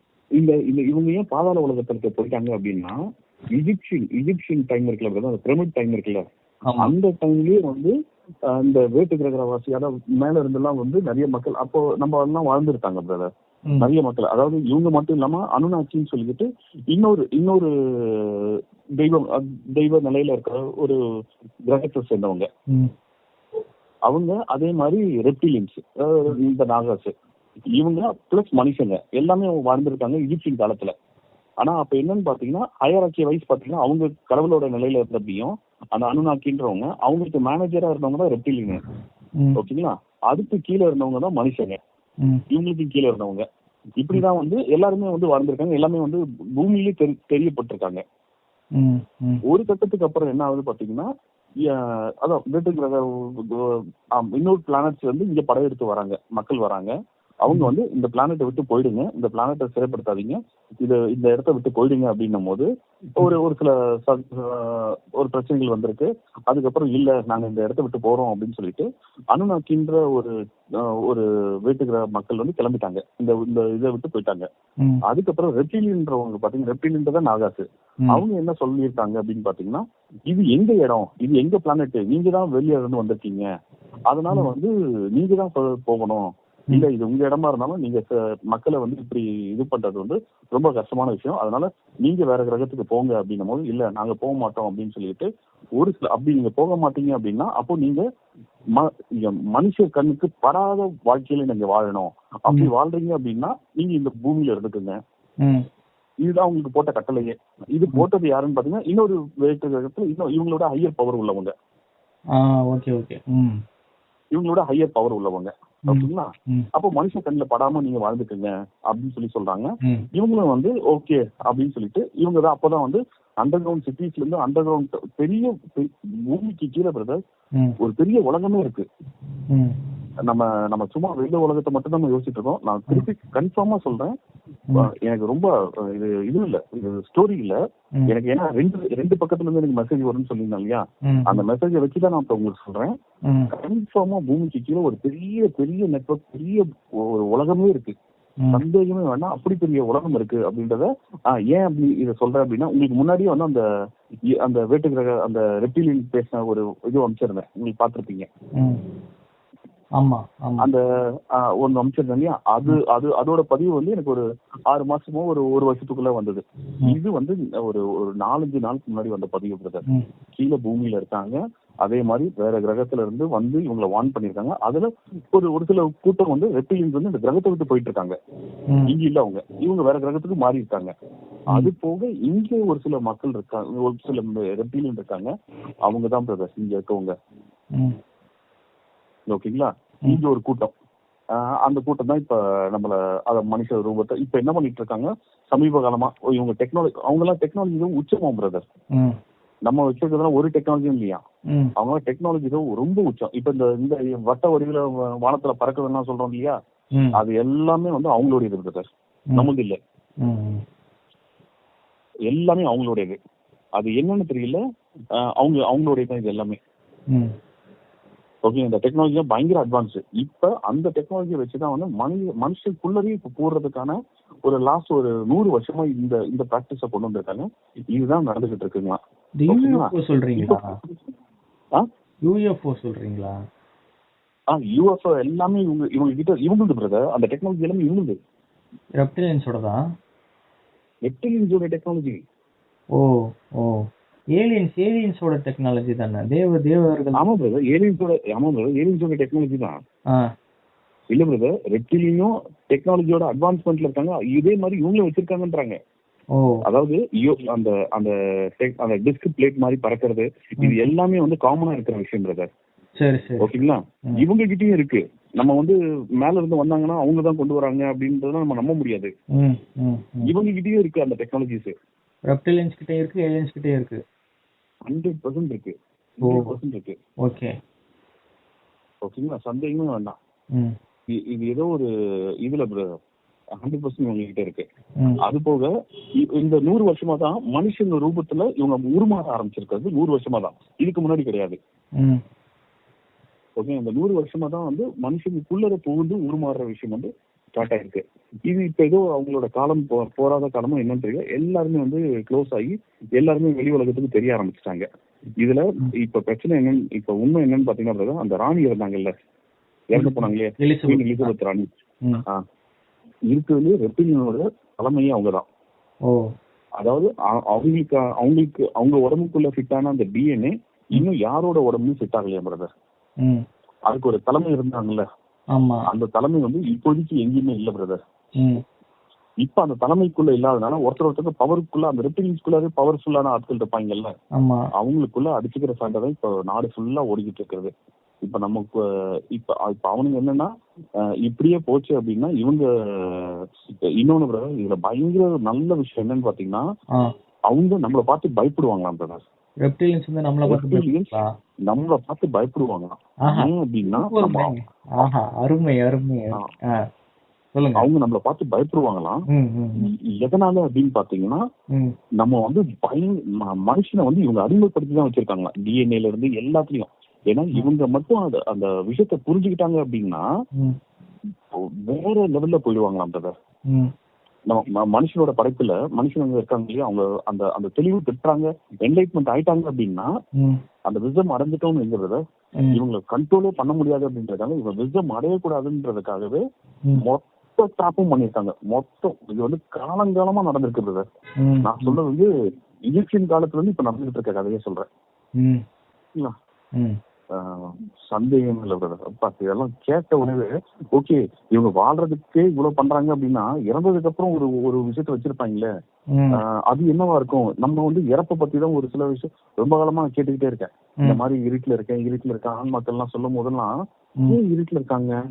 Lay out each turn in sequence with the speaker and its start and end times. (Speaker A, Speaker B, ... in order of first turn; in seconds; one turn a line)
Speaker A: 0.4-3.0
Speaker A: 3.5-6.2
Speaker B: 6.7-6.9
Speaker A: 6.8-7.9
Speaker A: 8.5-13.3
Speaker A: 13.8-21.0
Speaker A: 21.7-22.5
Speaker A: 24.1-27.1
Speaker A: 27.8-30.9
Speaker A: 31.6-38.8
Speaker A: 39.6-41.8
Speaker A: 42.5-43.5
Speaker A: 44.0-48.0
Speaker B: 48.8-49.4
Speaker A: 49.5-51.1
Speaker A: 51.7-56.9
Speaker A: 57.5-74.5
Speaker A: 75.1-83.5
Speaker A: 84.1-95.3
Speaker A: 95.8-98.0
Speaker A: 98.8-105.0
Speaker A: 106.2-111.5
Speaker B: 112.4-113.6
Speaker A: 114.3-127.2
Speaker B: 115.9-116.7
Speaker A: 127.8-128.9
Speaker B: 129.5-129.8
Speaker A: 130.3-134.1
Speaker A: 134.8-137.6
Speaker A: 138.1-142.9
Speaker B: 141.1-141.4
Speaker A: 143.5-147.9
Speaker A: 148.5-153.6
Speaker A: 154.4-158.3
Speaker B: 160.0-160.7
Speaker A: 161.4-169.8
Speaker A: 170.4-178.2
Speaker A: 178.9-180.9
Speaker A: 181.5-185.3
Speaker A: 185.9-187.2
Speaker A: 189.3-190.7
Speaker A: 191.4-198.6
Speaker A: 199.7-201.2
Speaker A: 201.8-206.6
Speaker A: 207.2-209.8
Speaker B: 210.2-210.6
Speaker A: 212.3-213.2
Speaker A: 213.8-214.6
Speaker A: 215.4-216.6
Speaker A: 218.4-230.9
Speaker B: 229.4-230.8
Speaker B: 232.3-233.3
Speaker A: 234.5-238.2
Speaker B: 239.0-239.8
Speaker A: 241.1-242.2
Speaker B: 243.0-243.9
Speaker B: 244.4-247.3
Speaker A: 247.2-249.8
Speaker A: 251.1-255.8
Speaker A: 256.7-262.5
Speaker B: 263.0-263.6
Speaker A: 263.4-269.1
Speaker B: 269.4-270.3
Speaker A: 270.2-271.7
Speaker B: 272.3-274.0
Speaker A: 274.9-277.0
Speaker B: 276.2-276.5
Speaker B: 277.2-277.5
Speaker A: 279.0-280.2
Speaker A: 281.3-281.9
Speaker A: 282.4-282.9
Speaker A: 283.6-284.6
Speaker A: 285.2-285.7
Speaker A: 286.2-291.6
Speaker A: 293.6-304.9
Speaker A: 305.4-309.1
Speaker A: 309.9-311.7
Speaker B: 310.0-311.3
Speaker A: 313.3-315.4
Speaker A: 316.8-322.7
Speaker A: 323.9-325.1
Speaker B: 325.6-325.8
Speaker A: 325.9-328.0
Speaker A: 329.4-334.1
Speaker B: 334.4-334.6
Speaker A: 334.8-337.7
Speaker A: 338.2-338.7
Speaker A: 339.3-340.5
Speaker A: 341.2-343.4
Speaker A: 344.0-346.6
Speaker A: 347.5-349.2
Speaker B: 349.6-351.3
Speaker A: 350.5-351.1
Speaker A: 351.7-354.5
Speaker B: 353.2-356.4
Speaker B: 357.6-357.9
Speaker A: 357.8-359.2
Speaker B: 359.3-359.9
Speaker A: 359.8-361.4
Speaker A: 362.2-370.2
Speaker A: 371.9-373.3
Speaker A: 374.5-380.1
Speaker A: 380.9-382.2
Speaker A: 382.7-386.4
Speaker A: 387.0-391.1
Speaker B: 391.4-392.0
Speaker A: 391.6-392.3
Speaker A: 392.9-394.9
Speaker A: 397.4-405.7
Speaker A: 406.4-413.7
Speaker A: 414.3-415.1